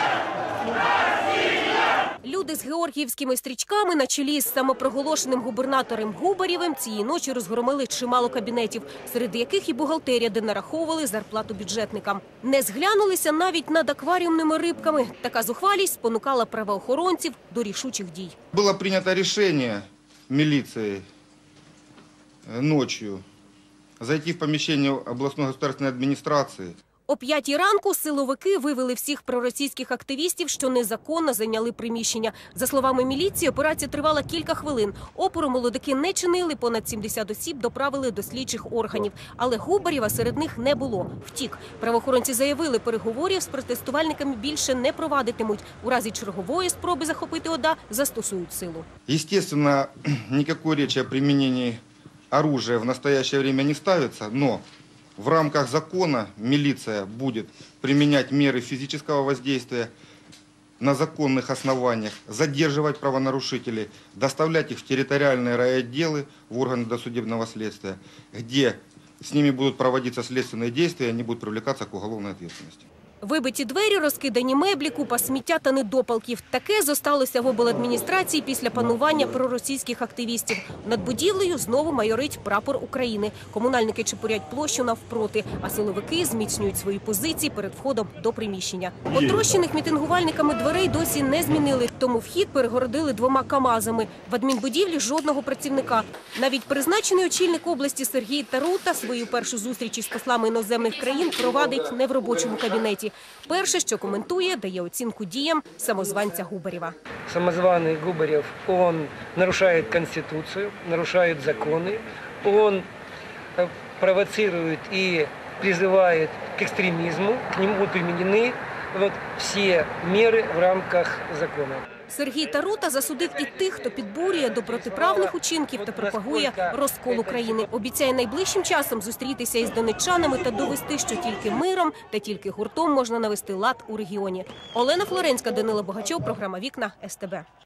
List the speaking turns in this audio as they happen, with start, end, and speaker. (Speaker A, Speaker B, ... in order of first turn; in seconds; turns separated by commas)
Speaker A: 2.2-18.4, Speaker B: 18.5-21.1, Speaker B: 22.5-23.2, Speaker B: 24.0-26.8, Speaker A: 27.1-48.9, Speaker B: 49.1-51.8, Speaker B: 52.3-54.6, Speaker B: 55.2-59.9, Speaker B: 60.8-72.9, Speaker A: 73.2-107.0, Speaker C: 107.3-112.9, Speaker C: 113.6-121.8, Speaker A: 122.1-137.5, Speaker C: 124.7-127.7